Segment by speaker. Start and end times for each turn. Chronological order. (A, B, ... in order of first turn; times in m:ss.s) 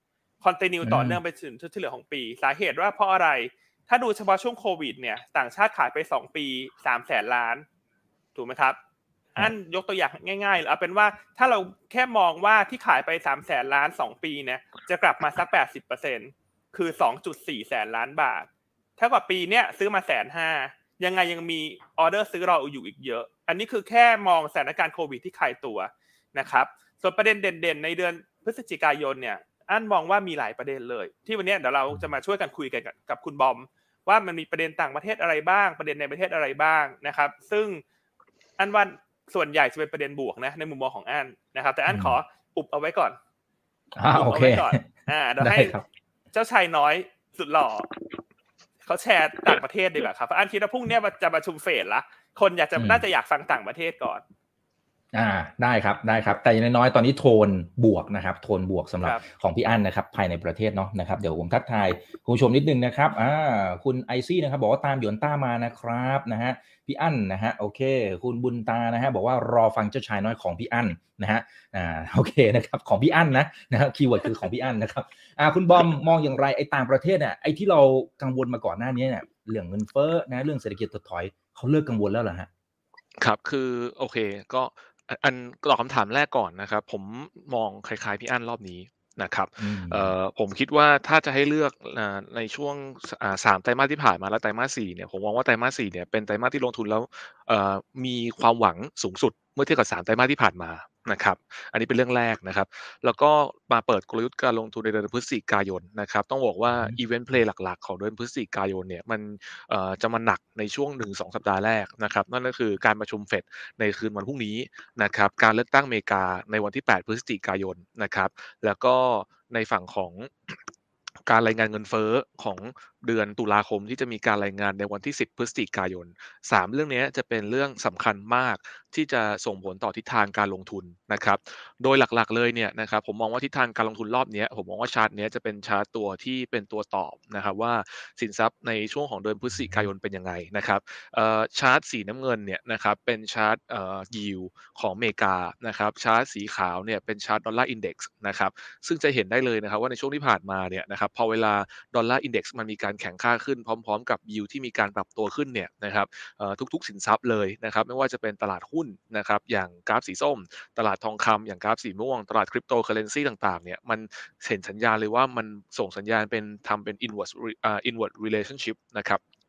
0:00.4-0:07.6 A
0:00.8-0:01.2 B
0:08.3-0:08.8 A
0:09.3-0:37.8 A
0:38.6-0:43.2 A
0:41.9-0:42.2 B
0:44.0-0:45.8 B
0:44.1-0:45.7 A
0:46.3-0:47.9 A
0:48.8-0:54.2 A
0:52.8-0:53.0 B
0:55.1-1:22.5 B
1:23.2-2:00.6 C
1:29.6-1:30.1 B
1:46.7-1:47.0 B
2:01.3-2:49.2 C
2:19.6-2:19.9 B